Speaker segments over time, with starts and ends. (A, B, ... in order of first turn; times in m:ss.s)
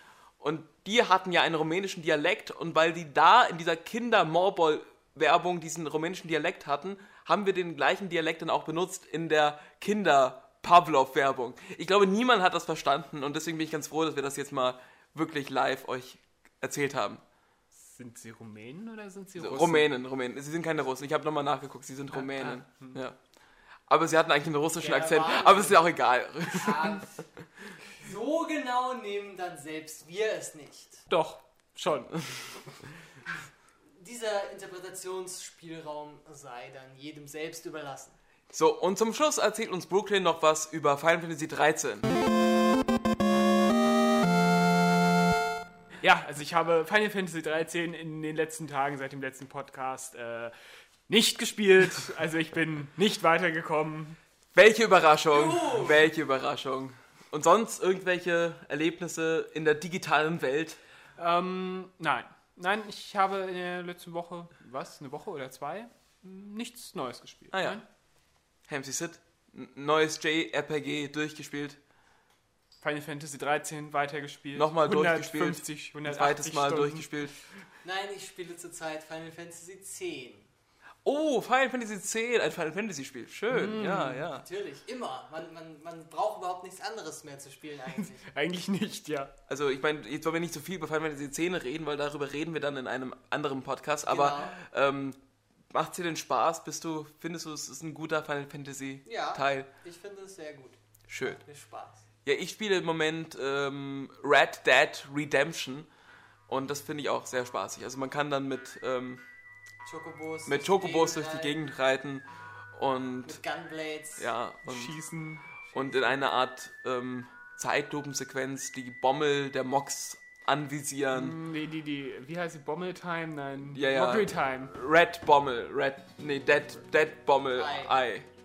0:00.4-0:17.2 A
0:17.7-0:19.9 B
0:19.4-0:23.2 A
0:22.1-0:23.0 B
0:23.9-0:27.0 A
0:24.8-0:25.8 C
0:26.5-0:27.2 C
0:27.9-0:31.0 C
0:31.1-0:32.2 B
0:34.0-0:38.2 C
0:38.5-0:42.1 A
0:46.0-0:50.5 B
0:51.1-0:54.2 B
0:54.5-1:00.8 A
0:55.3-0:56.0 C
1:01.2-1:07.8 B
1:07.5-1:07.8 A
1:08.7-1:11.8 A
1:12.8-1:17.3 B
1:14.5-1:17.3 A
1:17.8-1:20.5 C
1:21.0-1:24.4 A
1:23.5-1:24.3 B
1:24.4-1:28.2 C
1:27.9-1:29.3 B
1:29.5-1:35.2 A
1:34.0-1:34.6 C
1:35.7-1:39.7 A
1:39.0-1:42.0 C
1:41.1-1:41.4 A
1:42.2-1:45.9 A
1:46.5-1:49.2 A
1:49.8-1:51.6 C
1:50.4-1:53.4 A
1:53.2-1:54.3 C
1:54.2-1:55.0 A
1:54.6-1:55.8 B
1:55.7-2:01.4 A
2:01.1-2:04.7 B
2:03.7-2:08.3 A
2:07.5-2:07.9 C